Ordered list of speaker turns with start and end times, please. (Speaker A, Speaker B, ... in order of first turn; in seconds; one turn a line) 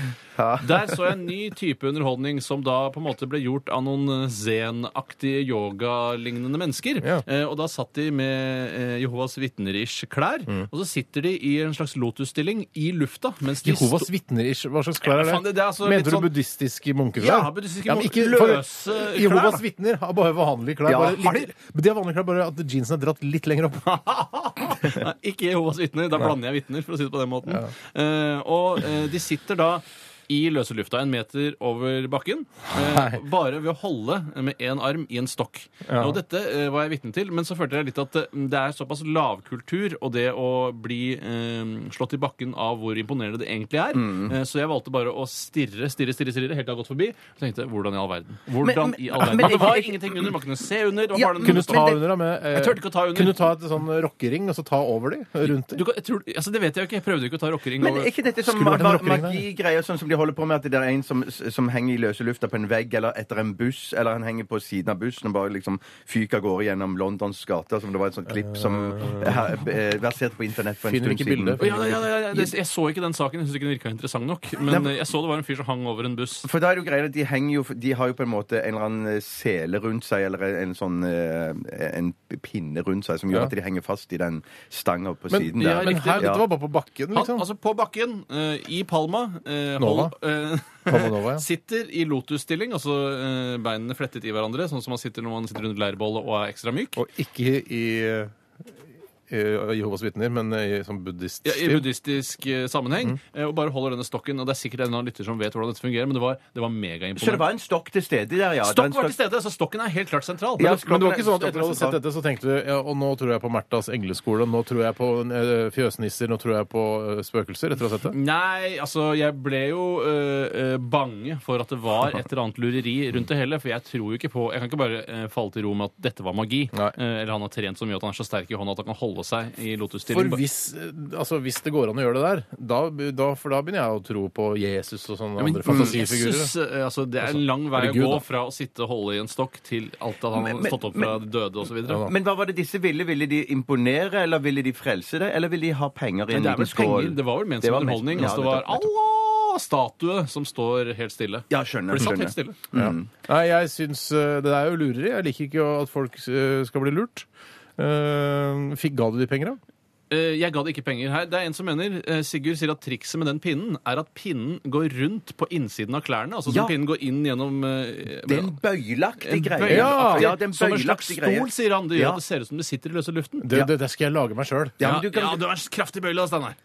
Speaker A: 0.4-1.1
Speaker B: 0.6-14.1
Speaker C: 13.6-24.0
Speaker B: 15.0-16.3
Speaker B: 17.2-19.6
Speaker A: 20.9-21.5
Speaker B: 23.9-52.0
Speaker C: 32.7-33.2
Speaker C: 35.9-36.2
Speaker A: 43.9-44.3
Speaker A: 48.6-50.3
Speaker C: 49.4-49.7
Speaker A: 51.1-52.1
Speaker C: 51.4-55.8
Speaker B: 52.5-53.5
Speaker B: 55.5-58.1
Speaker A: 57.8-71.7
Speaker C: 58.5-59.4
Speaker C: 68.4-69.6
Speaker C: 70.8-72.0
Speaker B: 71.6-76.5
Speaker A: 74.7-75.0
Speaker A: 76.4-86.5
Speaker C: 85.3-87.5
Speaker B: 85.6-86.3
Speaker B: 87.1-97.0
Speaker C: 89.8-90.2
Speaker C: 90.9-91.4
Speaker C: 97.0-98.3
Speaker C: 99.3-101.9
Speaker B: 101.5-107.5
Speaker A: 107.2-109.2
Speaker B: 108.6-110.8
Speaker A: 110.6-112.0
Speaker C: 110.6-118.2
Speaker B: 118.1-130.4
Speaker C: 130.1-136.5
Speaker B: 135.4-142.1
Speaker A: 135.7-135.9
Speaker C: 137.2-138.2
Speaker A: 140.3-141.2
Speaker C: 141.8-142.1
Speaker A: 142.1-148.9
Speaker B: 146.3-152.6
Speaker A: 151.5-153.1
Speaker C: 152.7-157.3
Speaker C: 157.8-159.6
Speaker B: 160.1-168.6
Speaker A: 166.5-166.7
Speaker A: 168.3-172.2
Speaker B: 169.2-173.5
Speaker C: 169.7-170.3
Speaker C: 173.4-174.8
Speaker A: 174.8-175.4
Speaker B: 174.8-176.6